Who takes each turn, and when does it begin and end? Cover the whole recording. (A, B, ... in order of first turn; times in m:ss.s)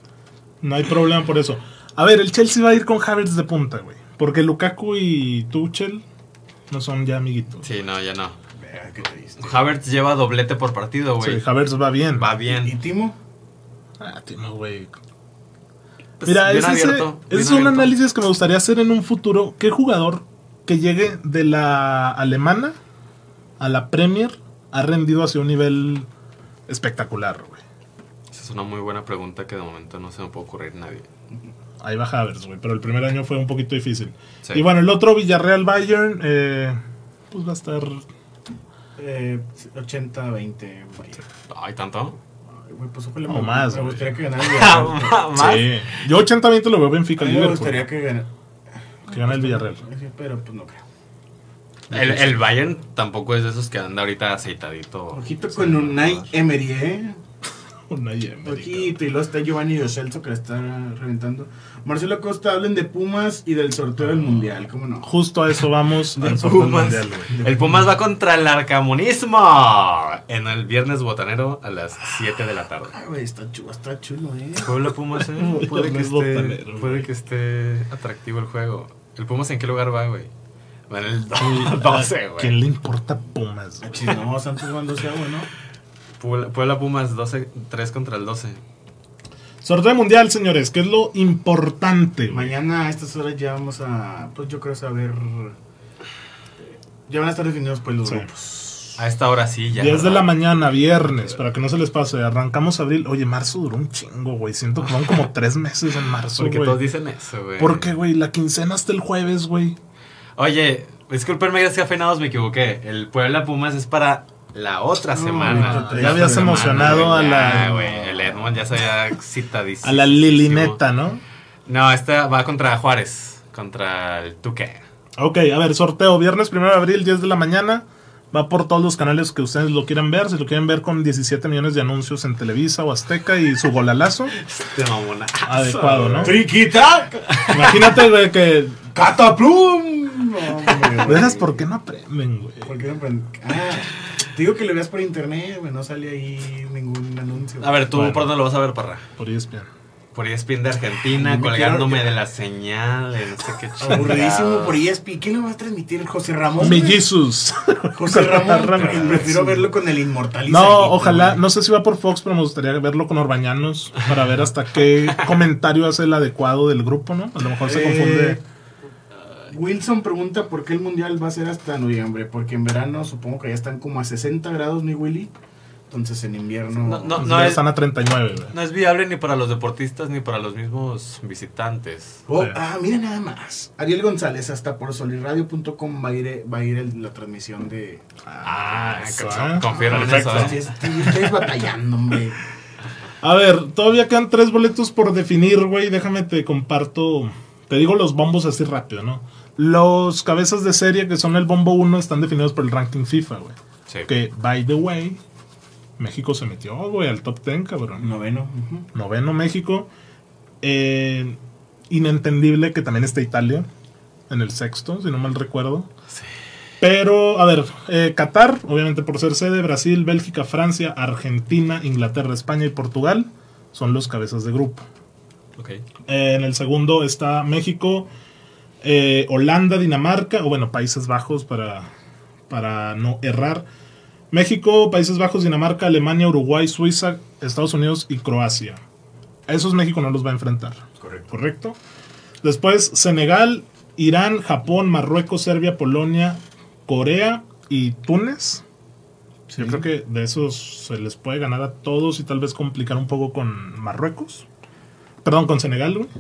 0:00.6-0:06.0 A
0:06.7-0:07.6 A
0:07.6-0:08.4 B
0:08.6-0:09.7 C
0:09.4-0:11.4 B
0:11.2-0:12.3 A
0:12.2-0:12.7 B
0:12.5-0:13.2 C
0:14.0-0:15.0 A
0:16.2-0:17.9 B
0:16.2-0:22.8 A
0:23.6-0:26.1 A
0:26.7-0:27.6 A
0:28.3-0:31.1 B
0:31.8-0:36.8 A
0:37.3-0:38.0 A
0:39.0-0:41.2 C
0:41.5-0:42.2 B
0:42.5-0:45.3 C
0:43.3-0:44.2 A
0:44.4-0:46.0 B
0:45.3-0:47.9 A
0:47.2-0:48.3 C
0:49.0-0:50.8 C
0:49.1-0:49.8 A
0:51.9-0:52.4 A
0:51.9-0:56.3 B
0:55.1-0:57.2 C
0:57.9-0:59.0 A
0:58.4-1:05.1 C
1:05.0-1:07.4 A
1:06.2-1:13.0 B
1:07.3-1:07.9 C
1:12.9-1:14.9 C
1:14.6-1:20.3 B
1:15.4-1:17.1 A
1:20.9-1:22.6 B
1:21.4-1:24.1 A
1:23.8-1:25.5 C
1:26.2-1:28.6 B
1:29.6-1:32.5 A
1:32.3-1:35.6 C
1:36.6-1:38.9 C
1:39.0-1:40.4 B
1:39.8-1:46.8 A
1:46.4-1:47.9 B
1:47.6-1:49.8 A
1:50.4-2:00.8 B
1:55.1-1:58.6 C
1:55.5-1:57.8 A
1:59.8-2:01.2 A
2:01.7-2:04.8 B
2:05.2-2:14.4 A
2:14.4-2:16.5 B
2:15.4-2:16.4 A
2:16.2-2:17.9 C
2:17.3-2:17.6 B
2:17.5-2:18.8 A
2:18.9-2:21.6 C
2:21.0-2:22.7 A
2:22.6-2:28.0 C
2:27.6-2:29.1 B
2:27.9-2:28.3 A
2:29.2-2:29.7 A
2:30.1-2:34.8 B
2:31.1-2:32.2 C
2:33.8-2:37.0 C
2:36.6-2:39.7 A
2:37.9-2:41.4 C
2:40.5-2:48.4 A
2:47.5-2:48.4 C
2:49.5-2:55.3 C
2:55.9-2:57.5 C
2:56.8-2:57.6 B
2:57.2-2:58.5 A
2:58.5-3:02.2 B
3:02.3-3:08.0 C
3:08.3-3:11.1 A
3:08.4-3:10.8 B
3:09.7-3:12.4 C
3:13.2-3:23.6 A
3:24.1-3:25.2 A
3:26.0-3:28.1 A
3:28.0-3:28.9 C
3:28.9-3:29.9 A
3:30.6-3:31.4 A
3:31.9-3:33.7 A
3:34.3-3:35.9 A
3:36.8-3:44.9 A
3:45.6-3:45.8 B
3:46.1-3:48.1 A
3:48.8-3:51.9 A
3:52.5-3:53.7 A
3:54.3-3:58.8 A
3:59.5-4:01.8 A
4:01.0-4:01.3 C
4:02.4-4:08.6 A
4:09.5-4:09.9 C
4:09.6-4:14.5 A
4:15.2-4:16.1 A